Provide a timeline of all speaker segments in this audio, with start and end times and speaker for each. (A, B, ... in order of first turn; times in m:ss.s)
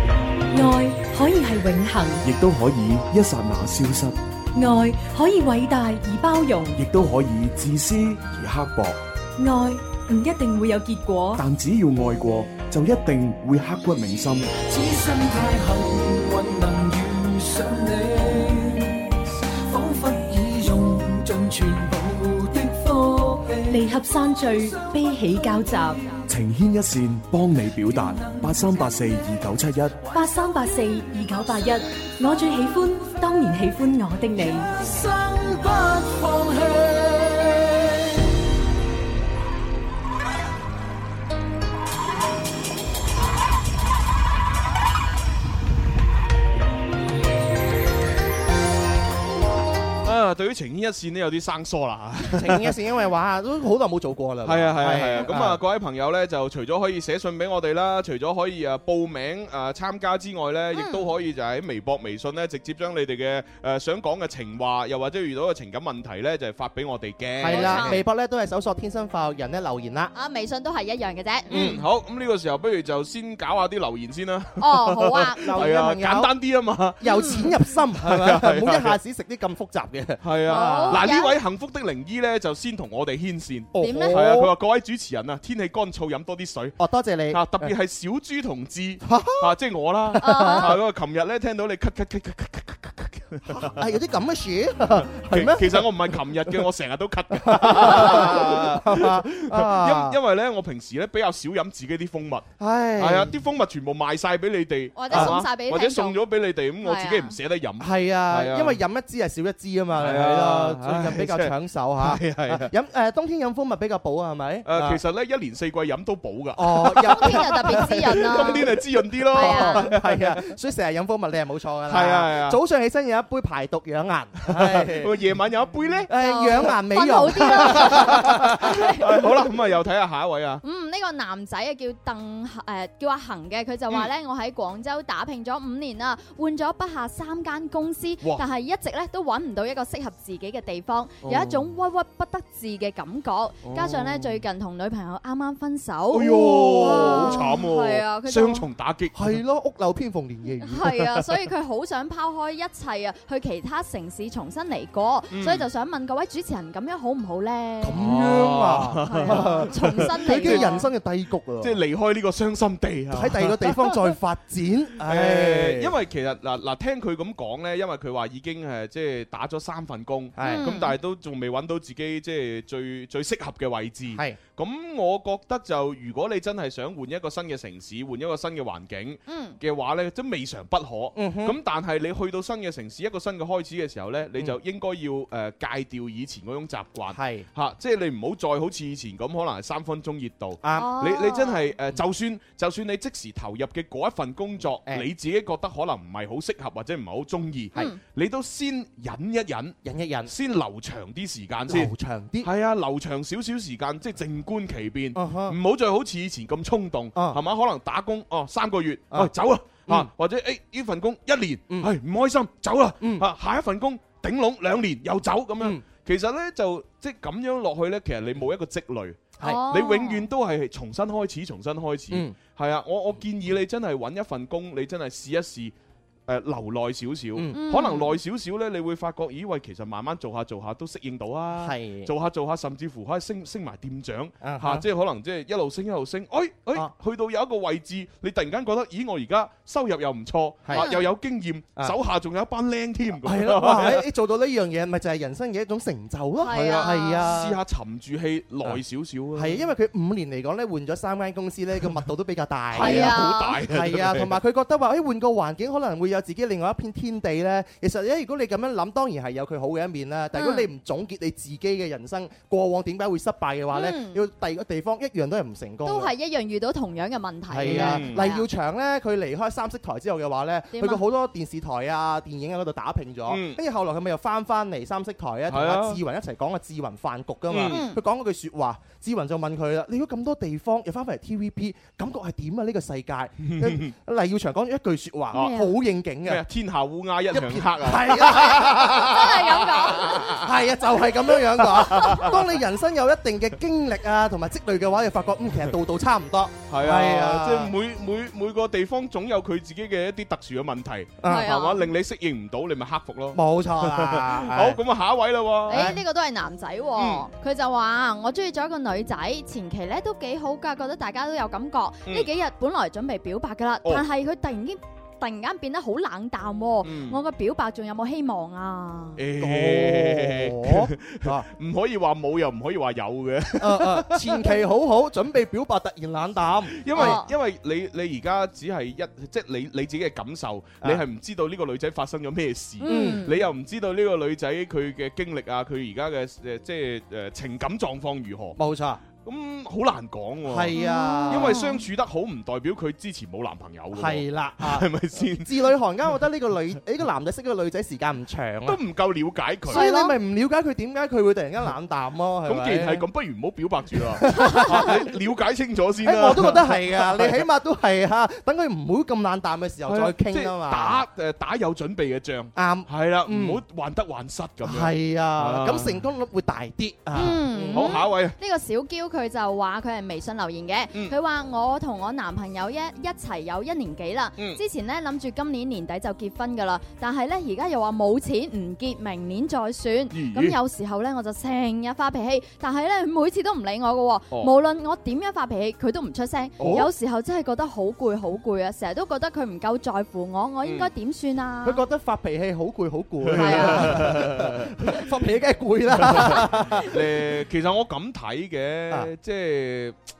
0:00.5-0:02.2 A
0:02.2-0:04.2 B
0:04.5-0:06.8 A
0:06.8-0:09.0 B
0:09.4-0:11.4 A
0:11.4-0:14.5 B
0:14.6-0:19.0 C
0:19.7-0:23.9 C
0:23.7-0:26.0 A
0:24.7-0:25.0 C
0:26.3-0:30.0 B
0:27.6-0:29.3 D
0:28.2-0:28.6 C
0:30.1-0:34.7 A
0:34.7-0:37.9 C
0:50.0-0:52.8 D
0:52.3-0:55.6 E
0:54.4-1:08.0 D
1:00.7-1:01.1 F
1:07.4-1:10.1 E
1:07.5-1:08.0 F
1:10.2-1:11.6 F
1:11.5-1:11.8 E
1:11.5-1:19.0 D
1:14.6-1:15.6 F
1:15.4-1:16.3 E
1:17.0-1:21.1 E
1:17.1-1:17.4 F
1:20.2-1:26.8 D
1:20.5-1:21.4 F
1:23.7-1:24.5 E
1:23.8-1:24.2 F
1:26.8-1:27.7 E
1:27.3-1:33.9 D
1:29.0-1:29.5 E
1:30.1-1:30.8 E
1:30.2-1:30.7 F
1:33.5-1:36.6 E
1:35.0-1:42.5 D
1:37.3-1:40.2 E
1:42.6-1:43.4 E
1:43.0-1:48.8 D
1:45.0-1:46.2 F
1:45.1-1:45.4 E
1:46.8-1:47.4 F
1:47.8-1:55.0 E
1:50.0-1:52.7 D
1:54.6-2:00.5 D
1:56.6-2:05.1 E
1:57.1-1:58.7 F
1:59.3-1:59.9 F
2:01.9-2:02.6 D
2:04.5-2:06.1 D
2:06.1-2:08.9 E
2:06.2-2:09.1 F
2:07.4-2:10.6 D
2:10.6-2:28.7 F
2:21.2-2:21.6 D
2:23.7-2:24.3 D
2:26.1-2:29.4 D
2:26.6-2:27.4 E
2:29.1-2:31.0 E
2:30.6-2:38.0 F
2:35.3-2:35.7 D
2:37.8-2:41.8 E
2:38.0-2:40.7 D
2:39.0-2:40.9 F
2:41.6-2:44.1 D
2:43.1-2:46.0 E
2:45.0-3:45.7 D
2:50.4-2:50.8 E
2:50.4-2:50.9 F
2:59.3-2:59.6 F
3:01.2-3:01.6 E
3:07.1-3:07.5 E
3:10.6-3:11.0 E
3:10.7-3:11.7 F
3:19.8-3:20.3 E
3:21.7-3:22.5 E
3:25.2-3:25.6 E
3:27.2-3:27.4 E
3:33.0-3:33.3 E
3:39.4-3:40.3 F
3:42.1-3:42.4 E
3:46.3-4:04.1 D
3:47.5-3:48.2 F
3:51.6-3:52.1 E
3:54.4-3:54.8 E
4:00.6-4:01.0 E
4:00.7-4:01.1 F
4:03.2-4:07.6 E
4:06.4-4:07.3 F
4:06.7-4:09.7 D
4:09.4-4:26.1 E
4:12.7-4:14.4 D
4:12.8-4:13.6 F
4:20.3-4:20.7 F
4:23.7-4:24.2 F
4:25.8-4:28.4 F
4:27.5-4:46.4 E
4:27.6-4:28.2 D
4:30.7-4:31.0 F
4:33.3-4:33.6 D
4:35.5-4:36.0 D
4:37.5-4:37.8 D
4:37.7-4:38.0 F
4:43.4-4:43.9 D
4:45.4-4:45.7 F
4:46.2-4:50.5 D
4:47.3-4:49.2 E
4:48.8-4:50.2 F
4:50.2-4:57.7 E
4:51.6-4:52.4 D
4:56.7-5:06.0 D
5:01.2-5:01.5 E
5:01.3-5:01.9 F
5:03.3-5:04.8 E
5:05.7-5:19.2 F
5:05.7-5:06.0 E
5:07.0-5:07.2 D
5:16.8-5:17.2 D
5:19.2-5:24.6 D
5:19.4-5:21.5 E
5:23.6-5:27.2 E
5:26.8-5:38.6 D
5:26.9-5:27.3 F
5:32.8-5:33.4 F
5:32.9-5:33.3 E
5:38.6-5:39.0 E
5:39.2-5:40.8 D
5:40.5-5:41.6 E
5:40.7-5:41.8 F
5:41.3-5:45.7 D
5:43.9-5:48.8 E
5:48.6-5:49.9 D
5:49.7-5:53.1 E
5:49.7-5:50.2 F
5:52.5-5:57.4 D
5:54.0-5:55.1 E
5:56.0-6:01.0 E
5:59.9-6:06.0 D
6:02.6-6:03.6 E
6:04.6-6:08.0 E
6:07.2-6:31.8 F
6:07.7-6:08.4 D
6:20.1-6:20.6 D
6:26.6-6:26.9 D
6:26.6-6:26.9 E
6:30.6-6:30.9 D
6:31.6-6:37.0 E
6:33.2-6:35.0 D
6:33.3-6:34.0 F
6:36.0-6:40.0 D